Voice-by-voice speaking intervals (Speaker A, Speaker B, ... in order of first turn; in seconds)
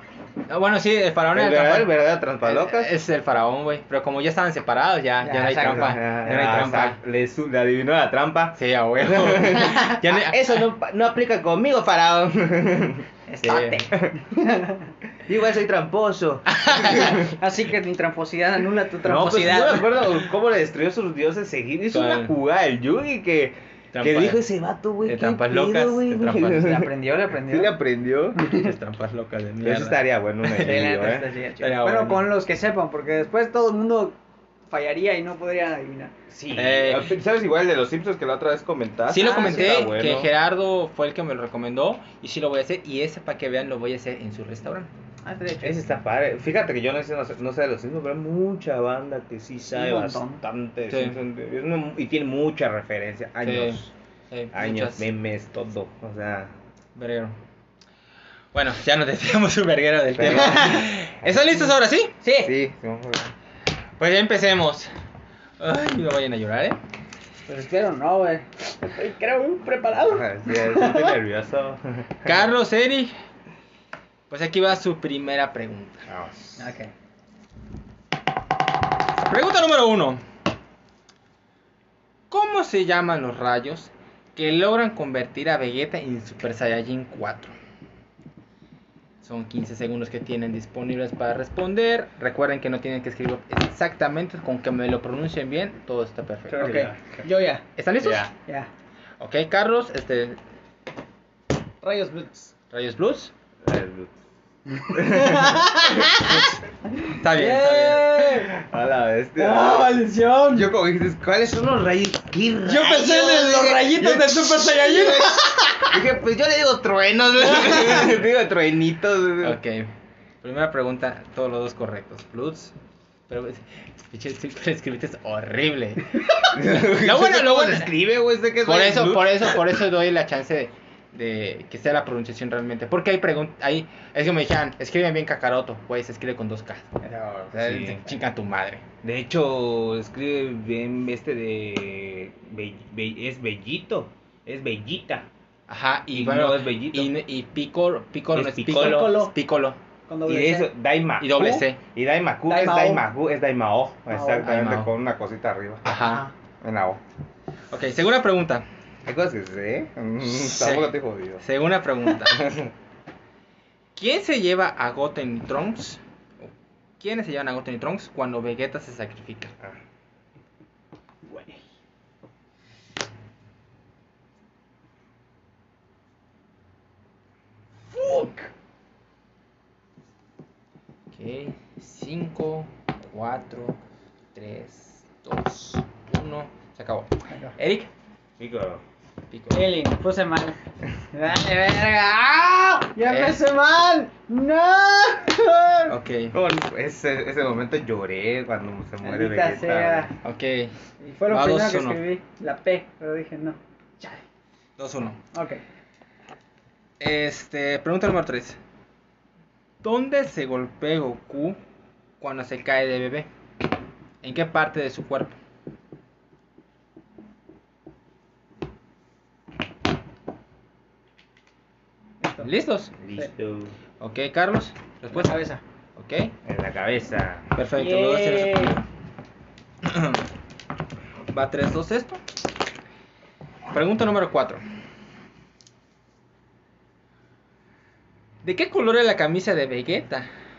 Speaker A: 0.5-1.9, 2.4-7.0, 8.6-10.5, 13.4-13.8, 16.5-17.2, 21.9-22.3, 23.9-24.4, 25.0-26.8, 28.4-30.9, 31.6-32.2, 36.5-37.1, 39.1-44.9, 50.9-51.2, 53.4-55.1, 57.0-57.4, 58.5-62.1, 64.0-64.9, 65.6-66.8, 72.2-73.1, 74.3-76.0, 79.1-80.2, 82.3-87.5, 89.2-96.9, 97.8-98.3, 99.2-100.4, 102.7-103.3, 107.1-108.2, 119.4-119.9, 120.4-122.7, 123.3-127.9, 128.6-137.0, 137.5-138.8, 145.7-149.8, 151.2-151.8, 154.4-154.9, 155.8-156.3, 157.7-158.6, 160.2-162.5, 163.9-169.5, 181.1-183.8, 184.3-187.9, 189.3-189.7, 193.1-193.4, 195.9-196.3, 200.2-200.8, 201.3-202.0, 204.8-205.2, 207.0-208.6, 209.8-211.6, 212.2-213.3, 214.2-215.3, 222.4-222.9, 224.0-225.4, 225.9-226.3, 227.5-228.8, 229.8-230.2, 231.3-232.2, 233.7-234.6, 238.4-240.3
Speaker B: 1.3-2.9, 5.6-14.2, 15.2-17.4, 19.0-28.4, 29.6-31.3, 36.3-40.3, 45.6-53.9, 54.5-56.5, 60.1-61.7, 62.3-63.3, 70.0-72.5, 76.1-76.7, 96.6-97.3, 98.0-98.3, 103.6-104.1, 104.9-106.5, 108.2-119.6, 126.5-129.6, 137.0-138.1, 139.0-145.3, 146.1-147.1, 148.3-149.2, 150.2-155.9, 156.6-157.0, 159.0-161.4, 162.2-162.7, 188.4-188.8, 196.3-200.1, 223.0-223.7, 226.4-227.5
Speaker C: 5.2-6.0, 13.3-14.9, 16.9-20.0, 26.4-27.7, 28.4-28.7, 30.6-34.1, 34.7-36.1, 39.1-39.8, 45.2-45.8, 49.7-50.4, 60.2-60.8, 62.2-62.5, 67.5-71.2, 76.6-76.9, 96.5-97.6, 101.8-102.5, 104.7-108.5, 109.4-110.7, 112.6-116.0, 117.5-118.0, 148.8-149.3, 150.1-150.7, 152.5-153.0, 154.1-154.5, 155.9-156.3, 171.3-171.6, 177.9-178.5, 187.3-187.5, 189.5-190.6, 191.1-195.9, 199.0-200.2, 201.0-204.2, 205.3-205.6, 222.2-222.5, 225.1-225.6, 227.7-228.7